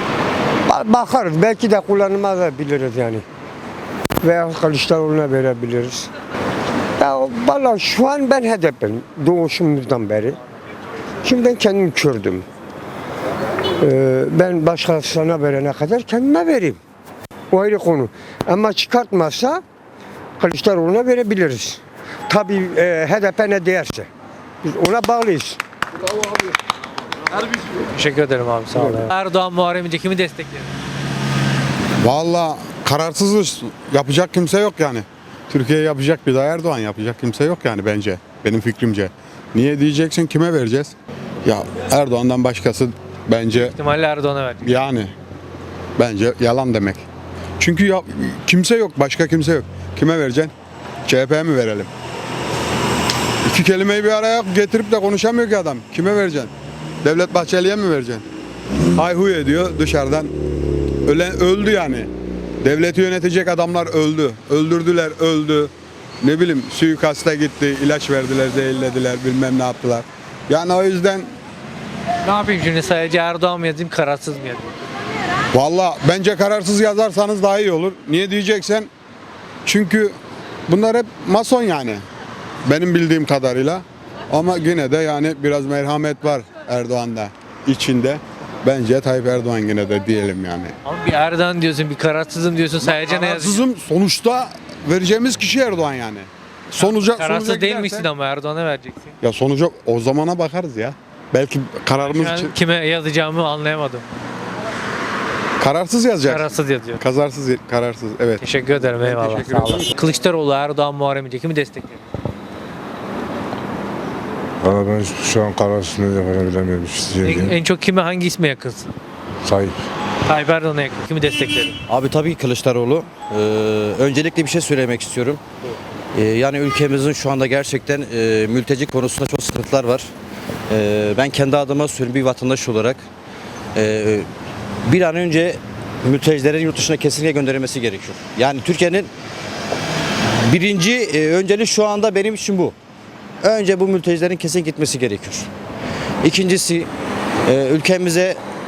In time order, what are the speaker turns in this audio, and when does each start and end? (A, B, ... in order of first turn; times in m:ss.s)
0:00.7-0:03.2 A
0:04.2-0:06.1 A
0:07.0-0:10.4 A
0:11.2-0:12.4 A
0:13.8-0:16.8 A
0:17.5-0:19.6 A
0:20.4-0:24.1 A
0:24.6-0:25.6 A
0:27.9-0:30.7 B
0:32.0-0:40.9 C
0:41.4-0:43.7 C
0:43.5-0:44.8 B
0:44.6-0:45.1 C
0:46.0-0:47.0 C
0:47.6-0:50.5 C
0:51.0-0:51.9 C
0:53.4-0:56.5 C
0:57.0-0:58.2 C
0:59.0-1:00.3 C
1:01.0-1:02.1 C
1:02.6-1:11.3 C
1:12.2-1:14.7 B
1:15.5-1:18.9 C
1:19.6-1:20.1 C
1:20.7-1:22.0 C
1:22.6-1:30.7 C
1:30.8-1:33.6 B
1:32.8-1:38.1 C
1:36.8-1:39.1 B
1:39.2-1:42.5 C
1:42.0-1:44.0 B
1:45.6-1:49.9 C
1:46.2-1:47.0 B
1:48.4-1:52.0 B
1:54.6-1:57.6 D
1:57.2-1:58.9 B
2:00.2-2:01.8 B
2:01.9-2:05.4 E
2:06.1-2:10.0 E
2:10.7-2:13.0 E
2:13.8-2:14.3 E
2:14.8-2:19.1 E
2:20.4-2:22.7 E
2:23.4-2:25.5 E
2:26.2-2:26.9 E
2:27.4-2:28.4 E